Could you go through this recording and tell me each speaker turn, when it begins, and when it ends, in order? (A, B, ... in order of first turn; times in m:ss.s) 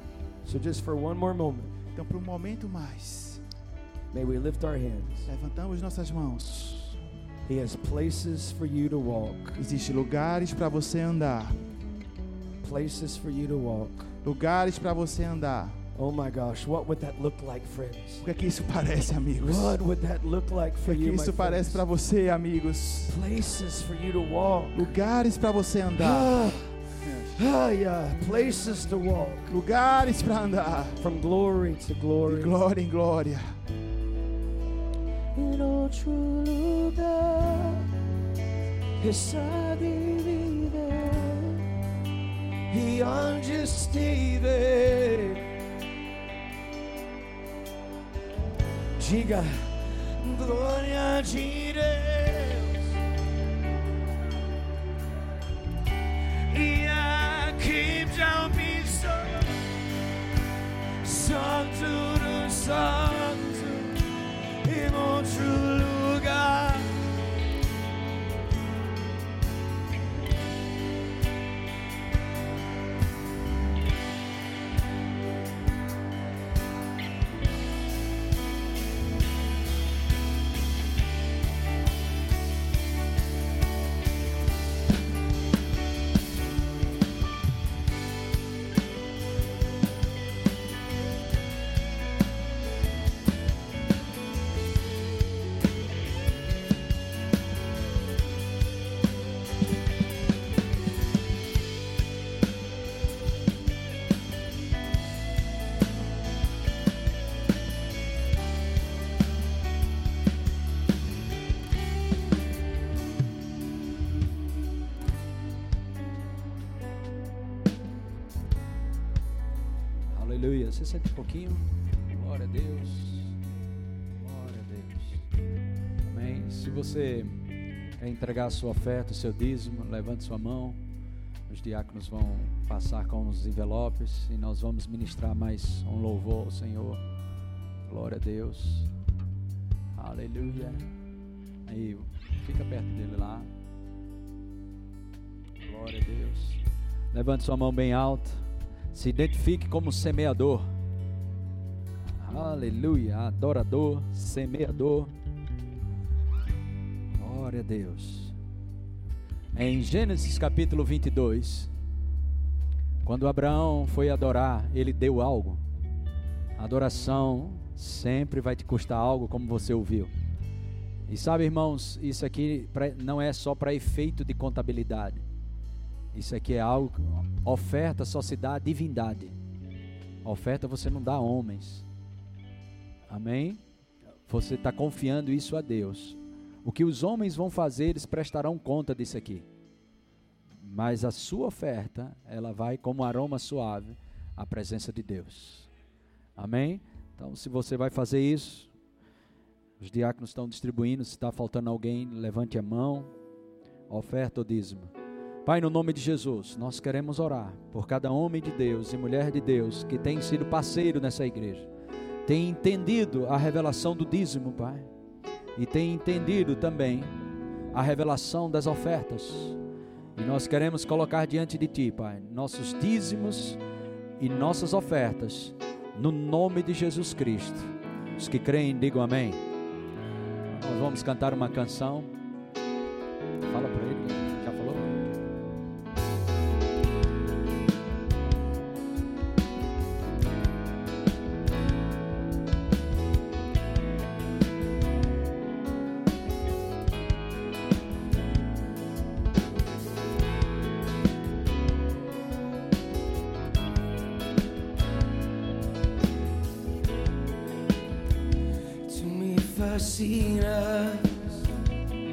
0:00.4-0:01.7 A
0:01.9-0:03.4 B
0:04.1-0:05.3 A
0:05.3-0:06.9 B
0:07.4-0:09.6 A
0:09.6-0:11.6 B
0:12.6-0:14.1 A
0:14.2-0:15.8 B
0:15.9-0:18.2 A
0:18.2-0:19.8 B
0:19.4-0:21.8 A
0:20.8-0:23.1 B
0:23.1-0:24.9 A
0:24.7-0:26.3 B
0:25.9-0:26.7 A
0:27.0-0:27.4 B
0:27.4-0:29.5 A
0:29.5-0:31.0 B
0:31.0-0:32.6 A
0:32.3-0:33.5 B
0:35.3-0:37.9 A
0:39.0-0:41.7 A
0:42.7-0:45.5 A
0:49.0-0:53.0 A
0:56.5-0:59.7 A
1:01.0-1:07.1 A
2:00.1-2:03.3 C
2:04.2-2:05.2 C
2:06.0-2:10.8 C
2:11.5-2:17.0 C
2:17.8-2:18.9 C
2:19.9-2:20.9 C
2:21.6-2:23.5 C
2:25.6-2:26.6 C
2:27.1-2:28.4 C
2:28.9-2:30.7 C
2:32.2-2:35.1 C
2:37.2-2:38.3 C
2:39.5-2:41.7 C
2:43.0-2:45.6 C
2:46.6-2:50.1 C
2:51.1-2:55.2 C
2:56.1-2:59.3 C
3:00.2-3:01.8 C
3:03.1-3:03.6 C
3:04.3-3:09.4 C
3:10.6-3:15.7 C
3:16.4-3:18.7 C
3:19.8-3:23.1 C
3:23.9-3:24.9 C
3:25.4-3:31.7 C
3:32.2-3:34.9 C
3:35.6-3:37.1 C
3:37.7-3:39.6 C
3:40.2-3:43.6 C
3:44.2-3:49.4 C
3:50.5-3:52.1 C
3:53.5-3:55.0 C
4:18.8-4:21.5 A